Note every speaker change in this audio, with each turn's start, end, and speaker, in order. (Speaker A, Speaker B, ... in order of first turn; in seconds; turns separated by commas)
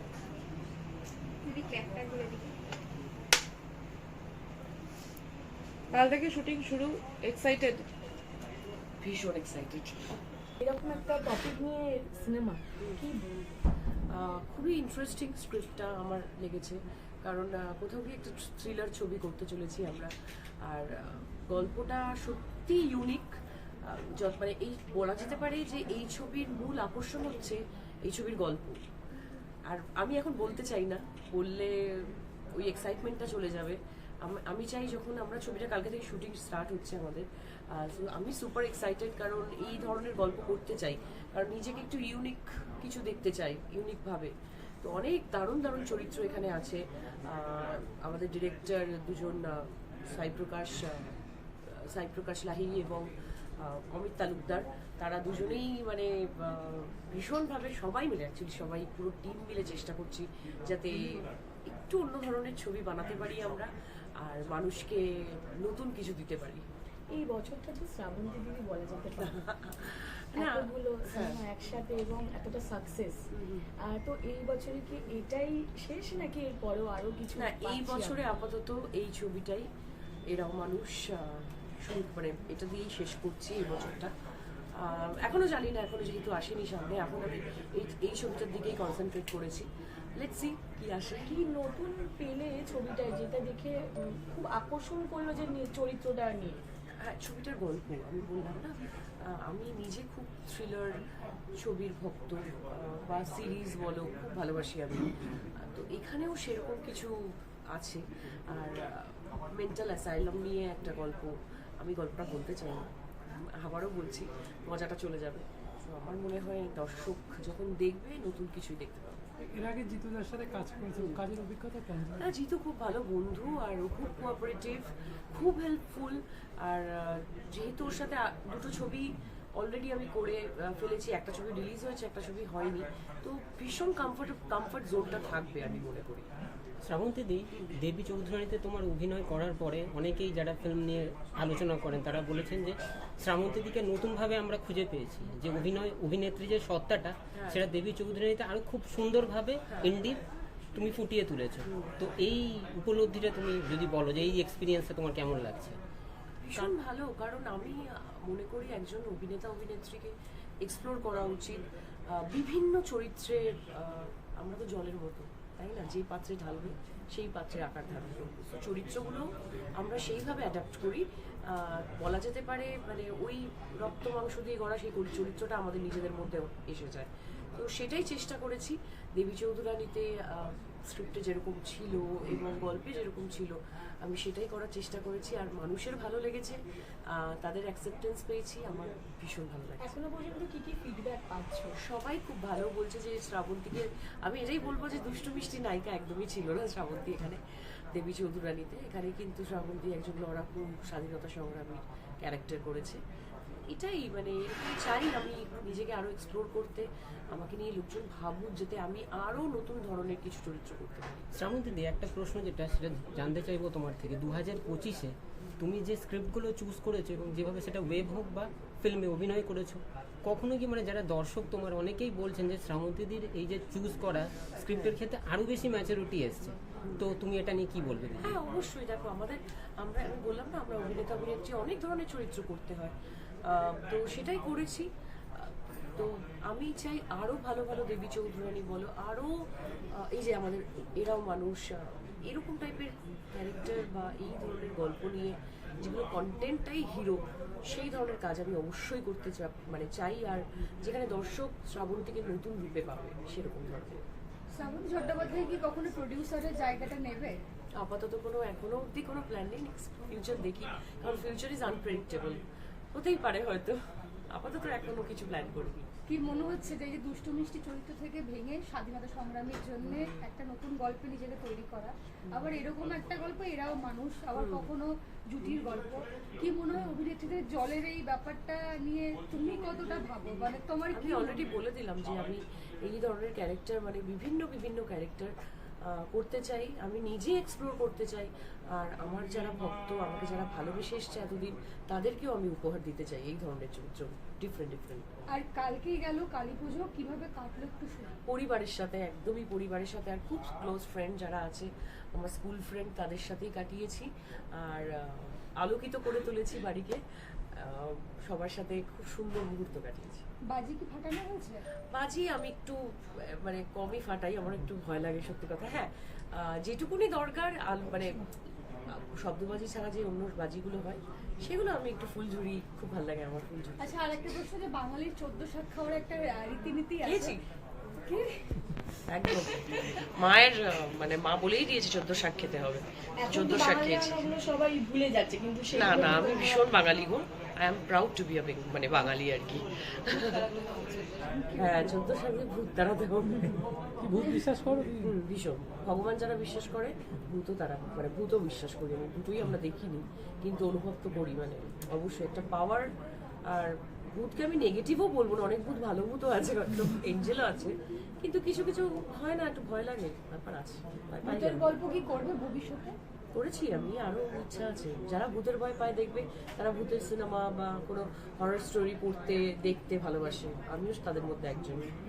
Speaker A: 1.4-2.5, Speaker B: 5.9-7.9, Speaker C: 9.0-10.1, Speaker D: 10.6-13.2, Speaker C: 14.1-20.1, Speaker C: 20.7-23.3, Speaker C: 23.9-28.8, Speaker C: 29.7-44.3, Speaker C: 44.8-51.1, Speaker C: 51.9-63.7, Speaker C: 64.2-66.7, Speaker D: 67.1-69.4, Speaker C: 69.2-71.4, Speaker D: 70.4-73.2, Speaker C: 73.3-73.7, Speaker D: 73.9-78.2, Speaker C: 77.4-79.7, Speaker C: 80.3-84.1, Speaker C: 84.8-91.3, Speaker D: 91.3-96.6, Speaker C: 97.0-98.8, Speaker C: 99.3-100.9, Speaker C: 101.6-105.1, Speaker C: 105.6-107.1, Speaker C: 107.7-112.9, Speaker C: 113.6-119.2, Speaker E: 119.5-122.3, Speaker C: 122.2-136.3, Speaker F: 136.8-150.2, Speaker C: 147.3-147.7, Speaker C: 149.7-149.9, Speaker F: 150.7-155.8, Speaker C: 151.7-151.9, Speaker C: 156.5-161.6, Speaker C: 162.1-169.2, Speaker C: 169.8-186.6, Speaker C: 187.2-189.9, Speaker D: 189.8-191.8, Speaker C: 191.8-197.4, Speaker C: 197.9-203.0, Speaker C: 203.7-211.3, Speaker F: 211.3-228.4, Speaker C: 224.7-225.0, Speaker C: 228.2-232.9, Speaker C: 233.5-234.9, Speaker C: 235.4-239.3, Speaker C: 240.0-254.0, Speaker A: 254.6-257.4, Speaker C: 257.8-262.4, Speaker C: 262.9-263.8, Speaker C: 264.3-265.9, Speaker A: 266.1-281.5, Speaker C: 269.8-270.2, Speaker C: 274.4-274.7, Speaker C: 280.9-285.3, Speaker C: 285.9-295.1, Speaker A: 295.3-298.2, Speaker C: 298.3-307.0, Speaker C: 307.6-310.2, Speaker A: 310.5-311.6, Speaker C: 311.9-312.8, Speaker C: 313.4-318.2, Speaker C: 319.2-324.3, Speaker A: 323.8-327.4, Speaker C: 327.1-327.4, Speaker A: 328.1-328.5, Speaker C: 329.1-334.2, Speaker D: 333.2-336.6, Speaker C: 335.8-340.4, Speaker B: 340.5-341.1, Speaker A: 341.2-341.9, Speaker C: 341.6-343.6, Speaker E: 344.0-345.1, Speaker C: 345.0-352.9, Speaker C: 353.5-361.7, Speaker A: 361.2-363.0, Speaker C: 363.4-371.9